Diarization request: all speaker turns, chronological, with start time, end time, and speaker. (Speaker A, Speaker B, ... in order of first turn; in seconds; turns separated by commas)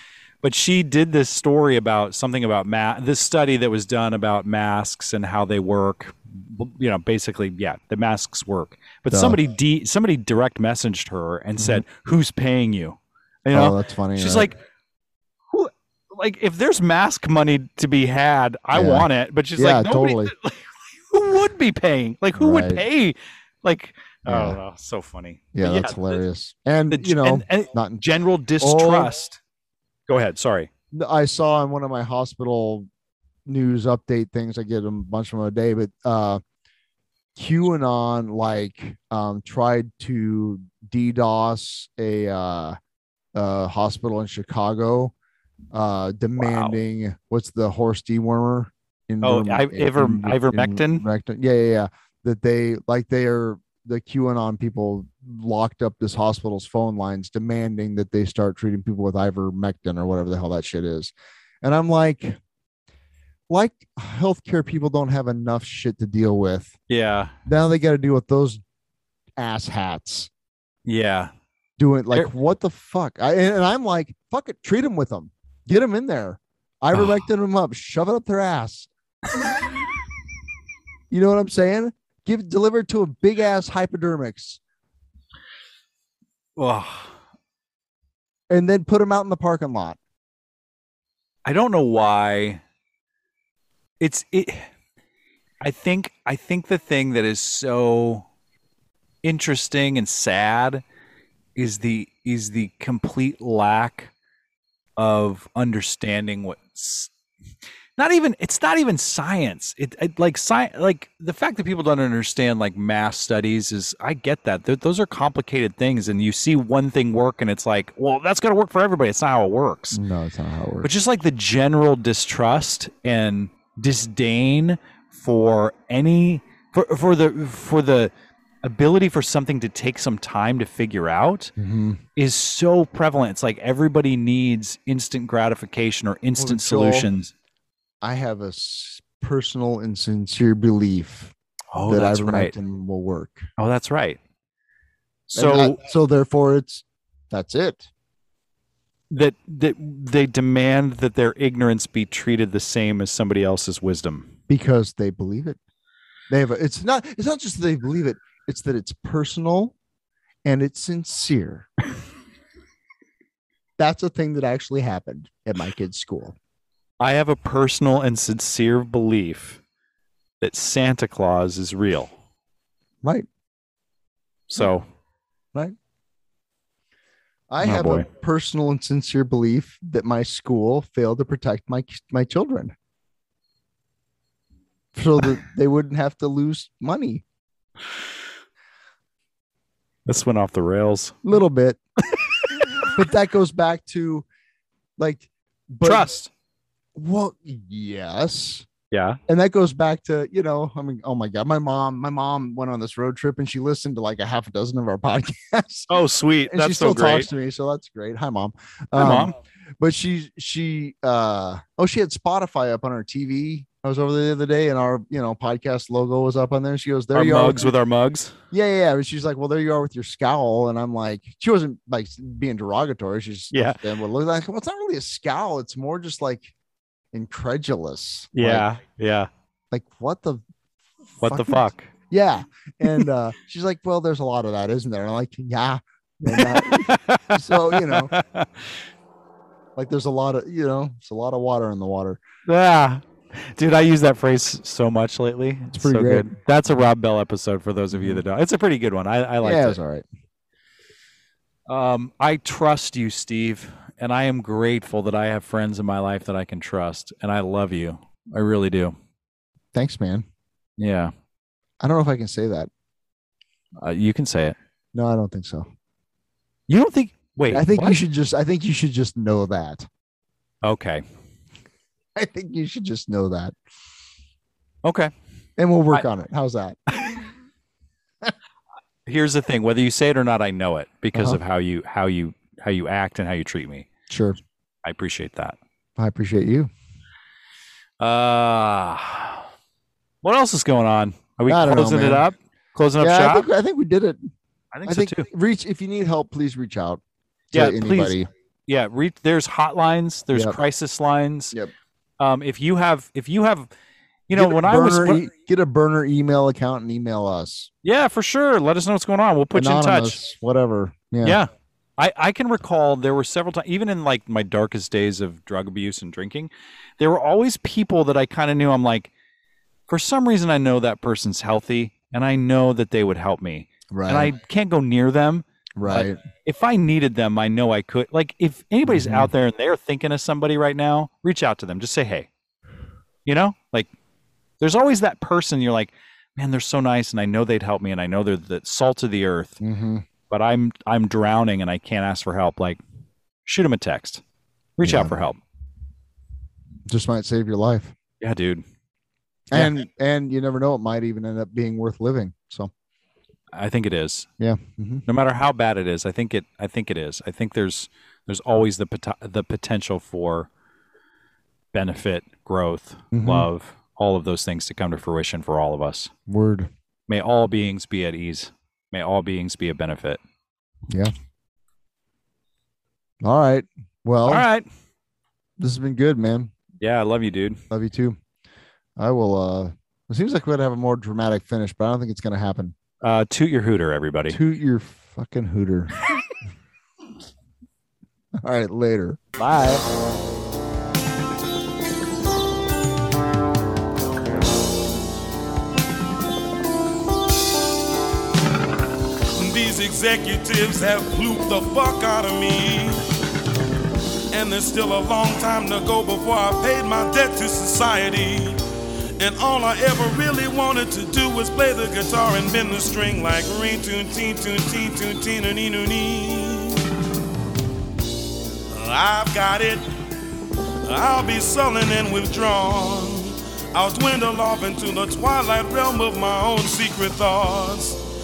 Speaker A: 0.4-14.6, Speaker B: 9.1-9.4, Speaker B: 11.6-11.8, Speaker B: 13.5-14.5, Speaker A: 15.5-26.2, Speaker B: 18.7-20.3, Speaker B: 22.3-22.8, Speaker B: 24.3-24.6, Speaker B: 25.5-28.0, Speaker A: 26.9-29.4, Speaker B: 28.6-29.2, Speaker A: 30.1-30.7, Speaker B: 30.9-32.9, Speaker B: 33.5-36.4, Speaker B: 37.3-42.8, Speaker B: 43.3-45.1, Speaker B: 45.7-62.4, Speaker A: 46.4-46.7, Speaker A: 49.2-51.0, Speaker B: 63.5-66.8, Speaker A: 66.9-67.3, Speaker B: 67.5-68.6, Speaker B: 69.4-70.3, Speaker A: 70.8-71.3, Speaker B: 71.8-78.9, Speaker B: 81.1-84.6, Speaker A: 86.5-87.1, Speaker B: 88.5-90.0, Speaker A: 91.5-92.6, Speaker A: 94.0-94.7, Speaker A: 95.6-98.2, Speaker A: 99.2-100.8, Speaker A: 101.5-104.1, Speaker A: 105.0-107.1, Speaker A: 108.0-120.0, Speaker B: 119.9-120.9, Speaker A: 120.8-128.1, Speaker A: 128.6-131.5, Speaker B: 131.6-132.0, Speaker A: 132.2-137.3, Speaker B: 136.4-137.1, Speaker B: 138.0-143.5, Speaker A: 141.7-142.5, Speaker A: 143.6-144.2, Speaker A: 145.3-145.8, Speaker B: 145.3-147.9, Speaker A: 149.1-154.3, Speaker B: 154.5-155.6, Speaker B: 156.3-159.7, Speaker B: 160.4-161.7, Speaker B: 163.8-166.3, Speaker A: 167.0-169.6, Speaker A: 170.4-172.1, Speaker A: 174.5-174.9, Speaker B: 177.5-182.7, Speaker A: 177.6-178.1, Speaker B: 184.9-187.2, Speaker A: 190.1-191.2, Speaker B: 191.2-191.8, Speaker A: 192.1-192.7, Speaker B: 192.8-194.2, Speaker B: 195.0-196.1, Speaker A: 195.8-196.3, Speaker B: 196.9-198.7, Speaker A: 198.9-199.2, Speaker B: 199.3-205.9, Speaker A: 205.9-207.3, Speaker B: 206.5-217.7, Speaker A: 208.9-209.4, Speaker A: 217.1-218.3, Speaker B: 218.5-226.5, Speaker A: 223.5-223.8, Speaker B: 227.1-228.7, Speaker A: 228.3-229.3, Speaker B: 229.7-230.4, Speaker B: 231.2-238.1, Speaker A: 231.2-231.9, Speaker A: 236.3-238.7, Speaker B: 239.8-242.2, Speaker A: 242.5-249.8, Speaker B: 245.7-246.3, Speaker B: 247.9-248.2, Speaker B: 249.4-250.0, Speaker A: 251.7-258.9, Speaker B: 259.7-260.2, Speaker A: 260.8-261.1, Speaker B: 261.8-262.7, Speaker A: 263.8-264.6, Speaker B: 264.9-265.7, Speaker A: 266.7-268.0, Speaker B: 267.5-269.9, Speaker A: 270.6-271.0, Speaker B: 272.1-273.5, Speaker A: 274.8-275.1, Speaker B: 275.6-276.8, Speaker A: 277.0-277.2, Speaker A: 279.1-283.9, Speaker B: 281.1-281.4, Speaker B: 284.1-284.4, Speaker A: 284.8-285.6, Speaker B: 286.0-286.7, Speaker A: 288.0-289.4, Speaker A: 290.2-293.5, Speaker B: 291.5-292.4, Speaker B: 293.0-294.3, Speaker A: 294.7-295.3, Speaker B: 294.9-297.0, Speaker A: 297.5-301.5, Speaker B: 297.5-298.3, Speaker B: 300.3-300.6, Speaker A: 302.2-303.7, Speaker A: 304.3-305.3, Speaker B: 304.3-307.7, Speaker A: 307.8-310.2, Speaker B: 309.5-311.4, Speaker A: 311.2-319.1, Speaker A: 319.9-332.3, Speaker B: 323.9-324.3, Speaker B: 325.8-326.2, Speaker B: 328.9-329.3, Speaker A: 333.2-333.9, Speaker A: 334.6-339.6, Speaker B: 339.6-340.1, Speaker A: 340.3-342.8, Speaker A: 343.4-344.2, Speaker A: 344.8-345.4, Speaker B: 344.8-345.2, Speaker B: 346.9-347.9, Speaker A: 348.2-348.6, Speaker B: 349.5-352.7, Speaker A: 353.5-354.3, Speaker B: 354.4-355.1, Speaker A: 355.1-360.5, Speaker A: 361.7-366.1, Speaker B: 363.1-363.5, Speaker B: 366.3-366.7, Speaker A: 367.1-370.2, Speaker B: 373.2-374.5, Speaker A: 374.2-374.6, Speaker B: 375.6-376.5, Speaker A: 376.8-377.6, Speaker B: 377.7-378.2, Speaker B: 379.0-382.7, Speaker A: 383.0-384.4, Speaker B: 384.3-385.9, Speaker B: 388.3-389.8, Speaker C: 399.3-403.1, Speaker C: 404.3-408.6, Speaker C: 409.2-416.9, Speaker C: 418.7-419.9, Speaker C: 420.8-428.0